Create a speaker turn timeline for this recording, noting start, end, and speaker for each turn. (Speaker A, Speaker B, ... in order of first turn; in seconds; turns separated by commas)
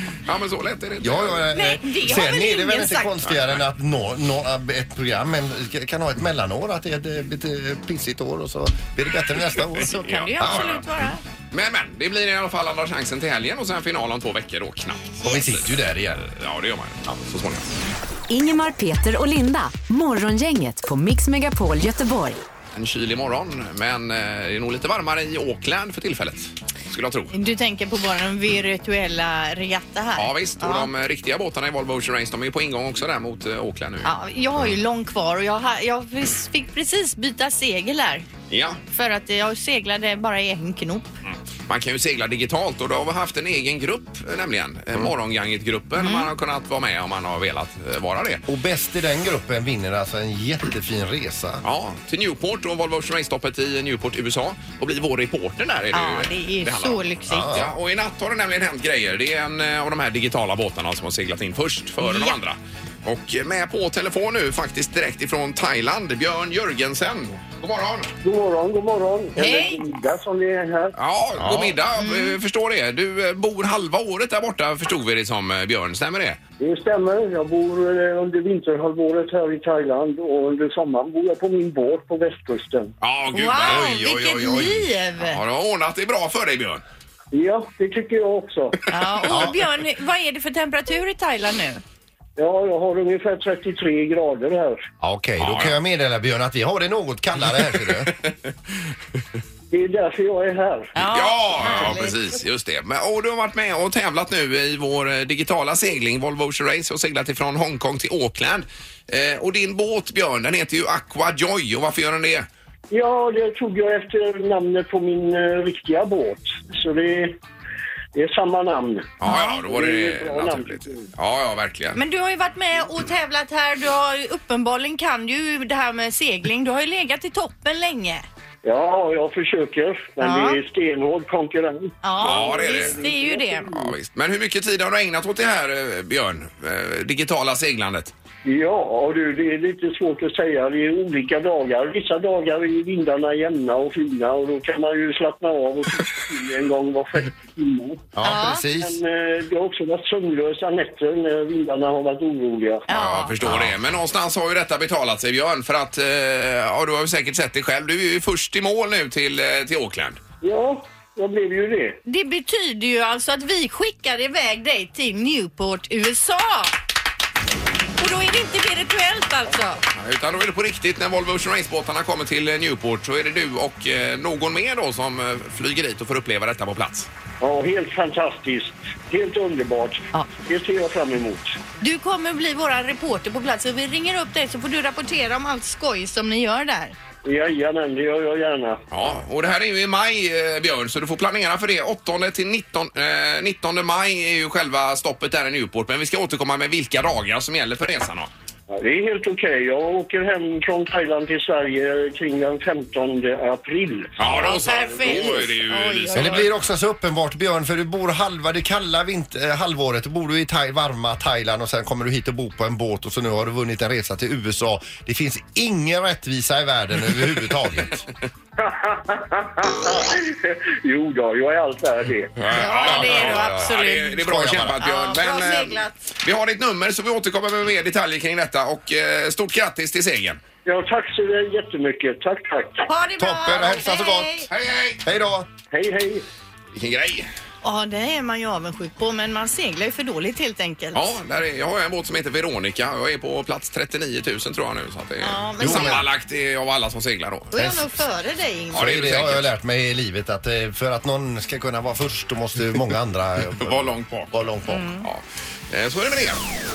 Speaker A: 0.2-1.5, Speaker B: 1.0-10.8, Speaker C: 1.5-3.2, Speaker C: 9.8-11.2, Speaker A: 9.9-10.8, Speaker A: 11.5-17.7, Speaker B: 15.2-16.2, Speaker D: 18.3-22.4, Speaker A: 22.7-27.3, Speaker C: 27.3-30.9, Speaker A: 30.2-34.1, Speaker C: 34.0-38.3, Speaker A: 38.5-38.8, Speaker C: 38.9-41.1, Speaker A: 41.3-48.4, Speaker C: 46.0-46.3, Speaker B: 48.5-51.6, Speaker A: 51.6-68.1, Speaker C: 55.9-57.5, Speaker B: 57.3-57.7, Speaker C: 62.0-62.4, Speaker E: 68.2-70.9, Speaker C: 69.4-69.9, Speaker A: 71.0-76.4, Speaker B: 71.4-71.8, Speaker C: 72.0-72.4, Speaker E: 76.6-82.9, Speaker A: 83.0-84.1, Speaker C: 83.3-85.4, Speaker B: 83.6-84.8, Speaker A: 85.2-86.8, Speaker E: 87.3-88.8, Speaker C: 88.9-91.8, Speaker E: 92.4-94.9, Speaker B: 95.0-98.1, Speaker A: 95.4-95.8, Speaker E: 99.7-100.9, Speaker C: 101.0-102.2, Speaker A: 101.0-112.5, Speaker E: 112.9-117.4, Speaker E: 118.1-121.1, Speaker A: 119.2-122.0, Speaker C: 119.2-119.6, Speaker C: 122.0-128.3, Speaker E: 128.6-133.9, Speaker C: 130.2-130.6, Speaker C: 132.0-133.8, Speaker A: 132.2-133.1, Speaker A: 133.7-138.1, Speaker E: 138.4-148.1, Speaker B: 148.2-149.0, Speaker C: 148.2-148.7, Speaker E: 148.8-152.9, Speaker C: 152.9-153.4, Speaker A: 152.9-160.2, Speaker B: 153.4-153.8, Speaker E: 160.4-162.0, Speaker C: 162.1-166.8, Speaker C: 168.0-169.8, Speaker A: 169.9-177.1, Speaker E: 177.4-181.6, Speaker C: 181.8-186.9, Speaker E: 187.2-188.8, Speaker A: 188.9-198.3, Speaker E: 198.7-204.8, Speaker A: 204.2-206.5, Speaker C: 204.3-206.5, Speaker B: 206.2-218.0, Speaker E: 218.6-222.3, Speaker A: 222.4-230.4, Speaker C: 222.5-224.3, Speaker B: 222.8-223.7, Speaker B: 224.2-224.8, Speaker C: 224.8-226.0, Speaker E: 230.7-232.9, Speaker C: 232.9-234.5, Speaker B: 233.2-234.5, Speaker A: 234.5-235.0, Speaker B: 235.0-235.5, Speaker E: 235.7-236.2, Speaker A: 236.8-237.3, Speaker C: 237.6-241.0, Speaker A: 240.9-247.5, Speaker C: 245.2-246.0, Speaker B: 245.6-246.0, Speaker C: 247.5-248.9, Speaker B: 247.6-248.0, Speaker B: 248.7-254.9, Speaker A: 248.7-249.5, Speaker A: 253.6-254.3, Speaker C: 254.7-255.1, Speaker A: 255.0-256.4